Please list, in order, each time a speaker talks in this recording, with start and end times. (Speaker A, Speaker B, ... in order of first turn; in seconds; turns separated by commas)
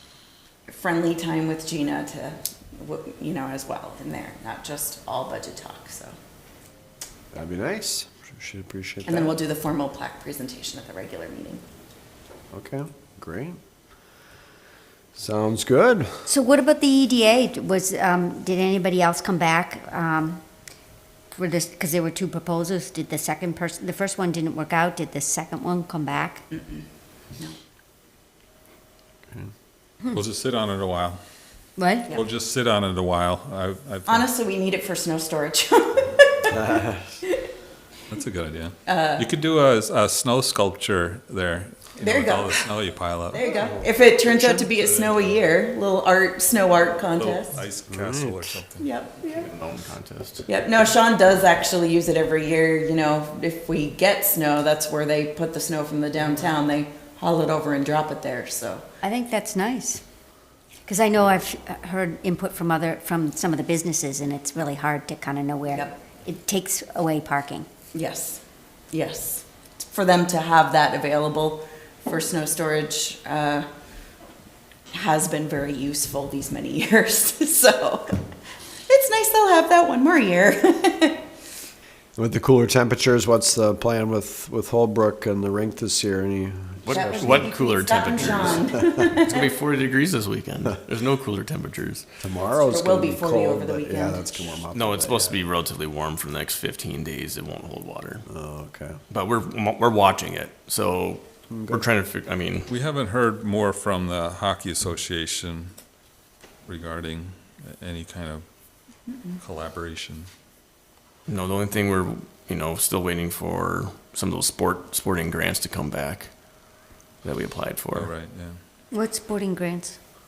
Speaker A: 0.7-6.1, Speaker B: 7.3-9.3, Speaker A: 9.1-11.6, Speaker B: 12.5-13.6, Speaker B: 15.1-16.2, Speaker C: 16.3-20.4, Speaker C: 21.3-26.4, Speaker A: 26.5-26.8, Speaker D: 30.1-31.2, Speaker C: 31.8-32.1, Speaker D: 32.1-34.3, Speaker A: 34.0-36.7, Speaker B: 36.5-37.0, Speaker D: 38.1-43.6, Speaker A: 38.9-39.3, Speaker A: 42.0-42.7, Speaker A: 43.3-47.5, Speaker D: 47.1-48.9, Speaker B: 47.9-48.5, Speaker A: 48.8-49.5, Speaker E: 49.4-50.5, Speaker A: 50.5-58.8, Speaker C: 59.0-60.1, Speaker C: 60.8-67.7, Speaker A: 67.9-73.7, Speaker A: 74.9-78.2, Speaker A: 78.9-81.2, Speaker B: 82.2-87.5, Speaker E: 86.8-92.1, Speaker A: 86.9-89.5, Speaker B: 88.3-88.7, Speaker B: 92.2-95.4, Speaker A: 92.6-94.5, Speaker E: 94.7-98.2, Speaker B: 98.3-99.0, Speaker E: 99.1-102.7, Speaker B: 101.5-101.8, Speaker D: 102.7-105.7, Speaker D: 106.6-110.3, Speaker E: 111.3-118.1, Speaker D: 117.9-118.6, Speaker C: 118.9-120.0